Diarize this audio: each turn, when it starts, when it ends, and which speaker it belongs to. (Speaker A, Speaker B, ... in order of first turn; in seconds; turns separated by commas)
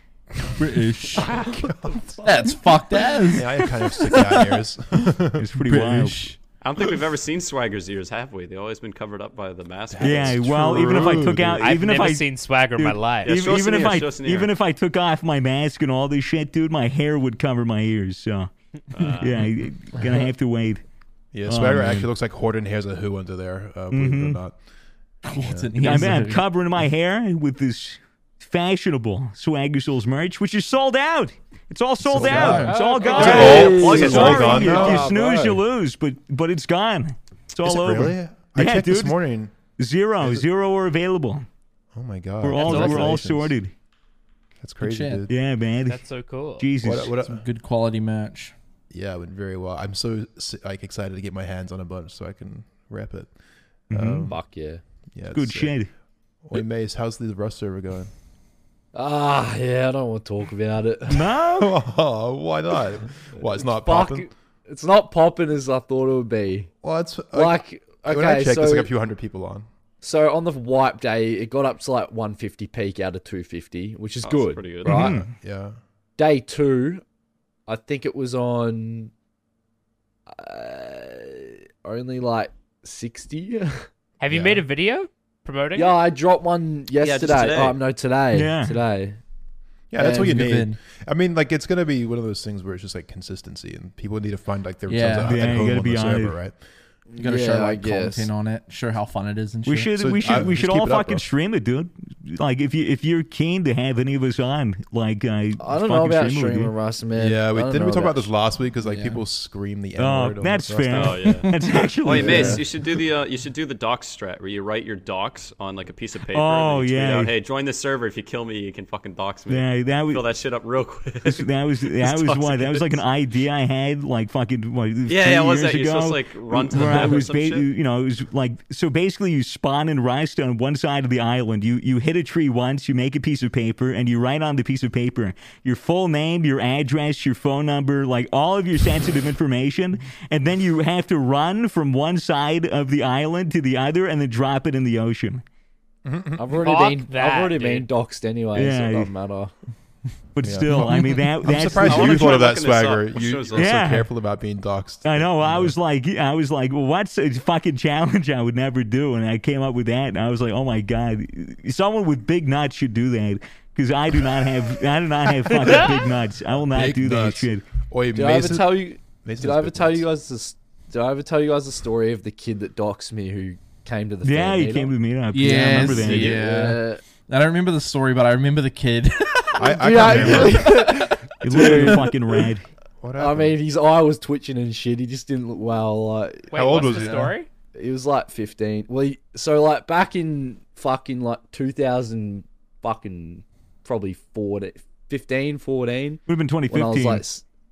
Speaker A: 0.6-1.3, Speaker B: 1.1-2.6, Speaker A: 2.2-4.6, Speaker B: 3.3-5.5, Speaker C: 5.4-6.3, Speaker A: 5.6-6.4, Speaker D: 6.6-10.6, Speaker B: 9.9-11.8, Speaker C: 10.0-18.5, Speaker E: 11.6-13.4, Speaker D: 13.2-14.5, Speaker D: 18.9-19.5, Speaker C: 19.1-20.8, Speaker B: 21.3-24.6, Speaker C: 21.5-22.1, Speaker C: 23.9-24.4, Speaker A: 25.2-26.5, Speaker B: 25.3-25.7, Speaker C: 25.8-39.2, Speaker B: 32.0-35.1, Speaker A: 32.1-32.8, Speaker E: 32.5-33.8, Speaker F: 32.6-35.6, Speaker D: 33.0-35.0, Speaker B: 37.6-39.5, Speaker C: 39.8-41.5, Speaker B: 40.2-40.4, Speaker B: 41.9-43.5, Speaker C: 42.4-43.7, Speaker E: 42.5-43.2, Speaker B: 44.6-45.3, Speaker A: 44.8-45.2, Speaker C: 45.3-46.0, Speaker E: 45.9-46.7, Speaker C: 46.6-47.1, Speaker B: 46.8-47.4, Speaker A: 47.0-48.5, Speaker B: 48.9-53.3, Speaker C: 53.9-54.3, Speaker B: 53.9-54.4, Speaker F: 54.2-54.8, Speaker B: 55.1-55.8, Speaker C: 55.3-55.9, Speaker B: 56.4-58.1, Speaker F: 58.9-61.3, Speaker C: 61.1-61.7, Speaker B: 61.5-64.3, Speaker F: 63.6-66.7, Speaker B: 66.8-69.7, Speaker F: 67.3-68.9, Speaker F: 70.0-75.2, Speaker D: 74.2-75.1, Speaker C: 74.8-75.3, Speaker B: 75.2-75.8, Speaker F: 76.2-77.0, Speaker F: 77.7-79.1, Speaker F: 80.3-83.9, Speaker E: 84.2-86.0, Speaker B: 84.3-84.6, Speaker F: 85.7-89.2, Speaker D: 87.0-87.8, Speaker C: 88.3-88.8, Speaker B: 89.9-96.5, Speaker F: 90.0-90.4, Speaker A: 90.0-90.8, Speaker A: 94.9-95.5, Speaker C: 95.2-96.4, Speaker F: 97.1-98.3, Speaker A: 97.2-99.9, Speaker C: 99.7-106.7, Speaker B: 100.0-101.2, Speaker F: 105.6-108.3, Speaker B: 107.2-111.2, Speaker F: 108.8-109.2, Speaker C: 110.0-112.6, Speaker D: 110.9-123.0, Speaker A: 111.4-111.8, Speaker F: 112.1-112.6, Speaker B: 112.1-112.6, Speaker C: 116.3-117.3, Speaker C: 119.5-120.3, Speaker C: 121.2-145.4, Speaker D: 125.0-127.7, Speaker B: 146.0-146.5, Speaker F: 146.4-149.5, Speaker E: 146.6-147.8, Speaker C: 148.5-149.1, Speaker C: 150.3-152.4, Speaker B: 150.4-155.7, Speaker A: 150.7-151.2, Speaker D: 151.7-153.9, Speaker C: 153.5-154.1, Speaker C: 155.0-167.6, Speaker B: 166.5-170.1, Speaker F: 168.1-177.0, Speaker C: 174.2-176.4, Speaker A: 175.3-182.2, Speaker B: 179.6-181.2, Speaker F: 179.7-182.1, Speaker C: 180.1-180.6, Speaker C: 181.4-182.7, Speaker B: 183.0-183.6, Speaker F: 183.2-186.6, Speaker E: 186.5-187.5, Speaker B: 186.5-187.3, Speaker A: 186.8-187.3, Speaker F: 187.7-197.4, Speaker C: 196.3-197.2